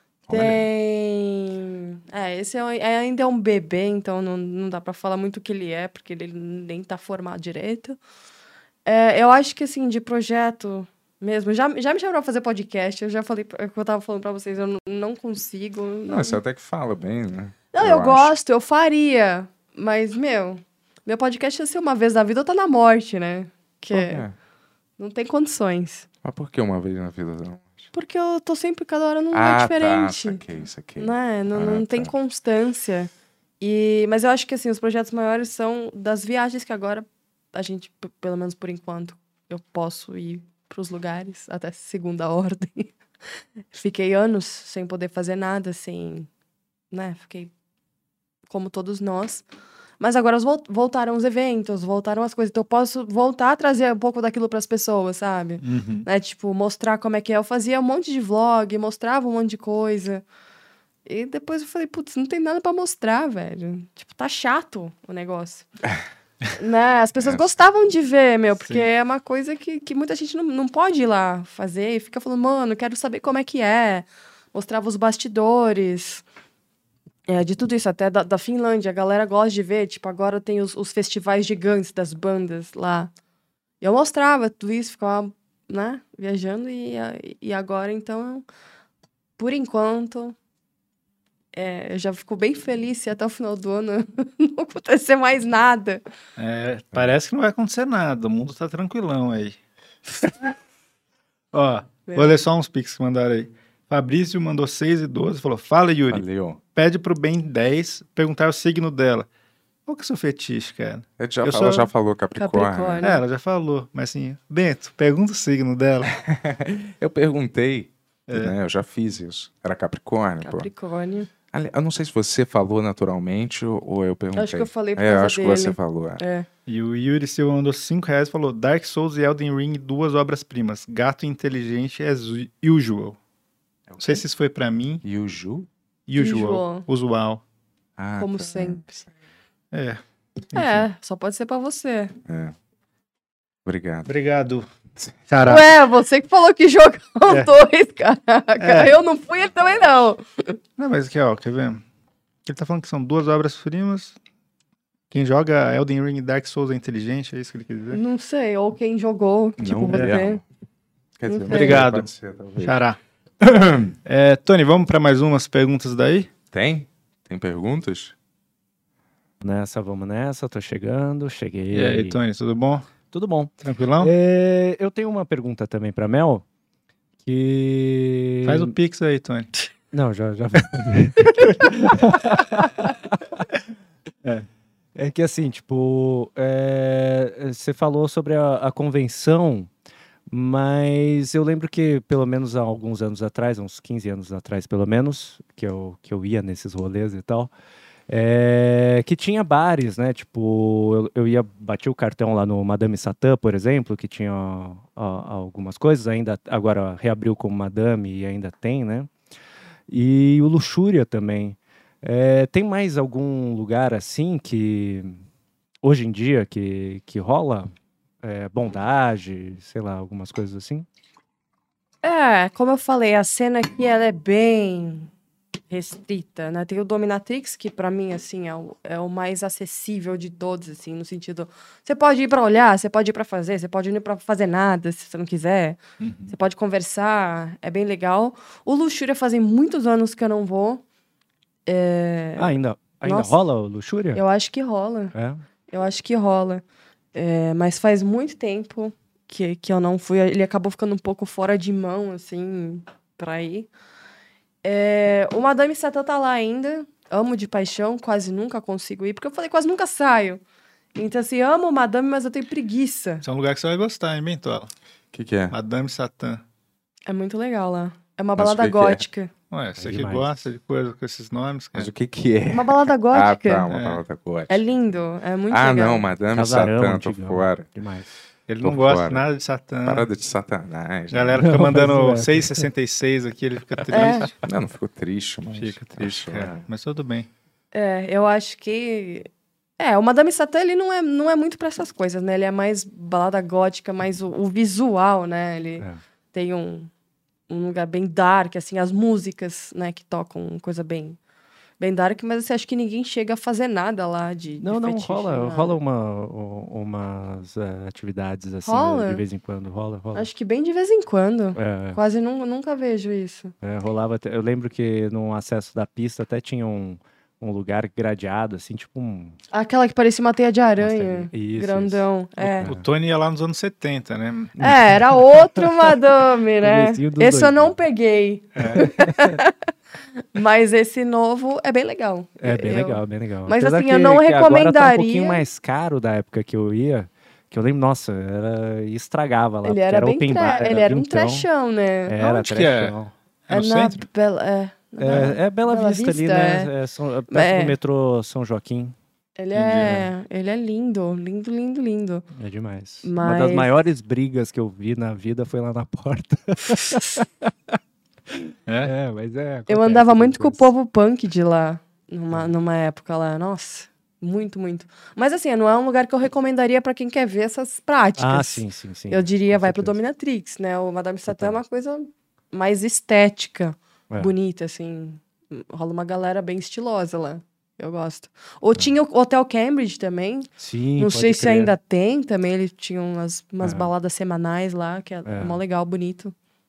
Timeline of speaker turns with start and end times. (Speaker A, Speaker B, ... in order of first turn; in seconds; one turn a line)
Speaker A: 0.3-0.6
Speaker B: 0.3-8.0
Speaker B: 8.8-16.4
Speaker A: 16.1-18.3
Speaker B: 17.7-24.2
Speaker A: 23.9-24.3
Speaker B: 25.0-26.1
Speaker A: 26.2-27.9
Speaker B: 27.9-30.4
Speaker A: 29.3-32.1
Speaker B: 31.0-42.9
Speaker B: 43.7-46.3
Speaker B: 46.9-47.5
Speaker B: 48.5-49.4
Speaker B: 50.0-60.2
Speaker C: 55.6-56.1
Speaker B: 61.0-65.7
Speaker B: 66.5-76.2
Speaker A: 67.2-67.5
Speaker B: 77.3-83.1
Speaker B: 83.8-88.4
Speaker B: 89.4-90.3
Speaker B: 91.5-96.0
Speaker C: 96.4-99.6
Speaker C: 101.5-109.3
Speaker B: 102.1-102.4
Speaker A: 106.1-106.6
Speaker C: 109.8-111.9
Speaker A: 111.2-113.1
Speaker B: 112.4-113.2
Speaker C: 113.0-116.1
Speaker A: 116.2-120.7
Speaker C: 118.3-118.5
Speaker B: 120.4-121.3
Speaker A: 121.5-126.2
Speaker B: 124.3-126.5
Speaker C: 126.7-133.2
Speaker A: 133.9-134.2
Speaker C: 134.0-135.0
Speaker A: 135.0-135.7
Speaker C: 136.1-137.4
Speaker B: 136.2-136.8
Speaker A: 138.0-138.9
Speaker B: 138.2-139.0
Speaker C: 139.7-140.0
Speaker C: 140.5-140.8
Speaker B: 140.5-142.1
Speaker A: 142.3-142.5
Speaker A: 143.6-144.1
Speaker C: 144.1-144.7
Speaker C: 145.3-145.7
Speaker B: 145.4-150.6
Speaker C: 148.6-148.9
Speaker C: 150.8-151.8
Speaker C: 152.4-154.2
Speaker C: 155.1-158.0
Speaker B: 157.9-160.4
Speaker A: 159.6-160.4
Speaker A: 161.2-162.8
Speaker B: 161.3-161.8
Speaker C: 161.5-163.0
Speaker A: 163.4-163.9
Speaker C: 164.0-166.3
Speaker A: 166.5-168.1
Speaker D: 169.4-172.2
Speaker C: 171.7-172.9
Speaker D: 173.1-176.4
Speaker C: 173.6-174.1
Speaker D: 177.2-178.7
Speaker C: 178.4-179.5
Speaker D: 179.9-183.4
Speaker D: 184.9-189.7
Speaker D: 190.3-197.5
Speaker D: 198.1-209.1
Speaker D: 209.9-215.2
Speaker D: 215.8-217.7
Speaker D: 218.2-220.9
Speaker B: 222.0-225.1
Speaker B: 225.7-240.8
Speaker C: 236.0-236.3
Speaker B: 241.7-243.3
Speaker D: 242.4-244.2
Speaker B: 244.1-245.1
Speaker D: 245.1-245.4
Speaker B: 245.7-246.6
Speaker B: 247.1-253.7
Speaker B: 254.6-260.4
Speaker B: 260.9-263.2
Speaker C: 263.2-264.7
Speaker A: 265.1-265.6
Speaker C: 265.5-266.4
Speaker B: 267.1-269.3
Speaker A: 268.4-269.0
Speaker C: 269.5-271.9
Speaker D: 269.8-270.4
Speaker A: 271.7-274.7
Speaker B: 272.5-273.6
Speaker C: 273.7-274.0
Speaker B: 274.5-276.1
Speaker A: 275.5-277.8
Speaker D: 276.3-278.1
Speaker C: 278.5-280.1
Speaker A: 278.6-279.2
Speaker A: 279.8-281.4
Speaker C: 281.1-284.4
Speaker D: 281.4-282.6
Speaker B: 283.9-284.3
Speaker A: 284.4-286.6
Speaker C: 285.5-287.3
Speaker B: 287.7-296.9
Speaker B: 297.5-301.2
Speaker B: 301.8-305.8
Speaker D: 304.6-310.3
Speaker B: 308.6-309.2
Speaker B: 310.1-313.5
Speaker D: 311.6-312.0
Speaker D: 313.6-319.4
Speaker B: 319.5-322.7
Speaker D: 320.8-322.9
Speaker C: 322.6-325.3
Speaker B: 324.6-329.5
Speaker D: 326.6-327.8
Speaker C: 328.6-328.8
Speaker D: 328.6-329.4
Speaker B: 330.3-335.4
Speaker D: 332.4-341.5
Speaker B: 339.6-342.2
Speaker D: 342.1-343.1
Speaker C: 342.2-342.9
Speaker C: 343.5-344.1
Speaker B: 343.5-346.7
Speaker D: 345.0-348.9
Speaker B: 347.3-347.7
Speaker B: 349.4-352.2
Speaker D: 349.6-350.1
Speaker D: 352.3-357.8
Speaker B: 353.0-353.7
Speaker D: 358.3-360.7
Speaker C: 358.7-358.9
Speaker B: 359.7-386.3
Speaker D: 368.2-370.0
Speaker D: 371.3-371.6
Speaker D: 380.6-381.7
Speaker D: 383.6-383.9
Speaker D: 385.2-385.6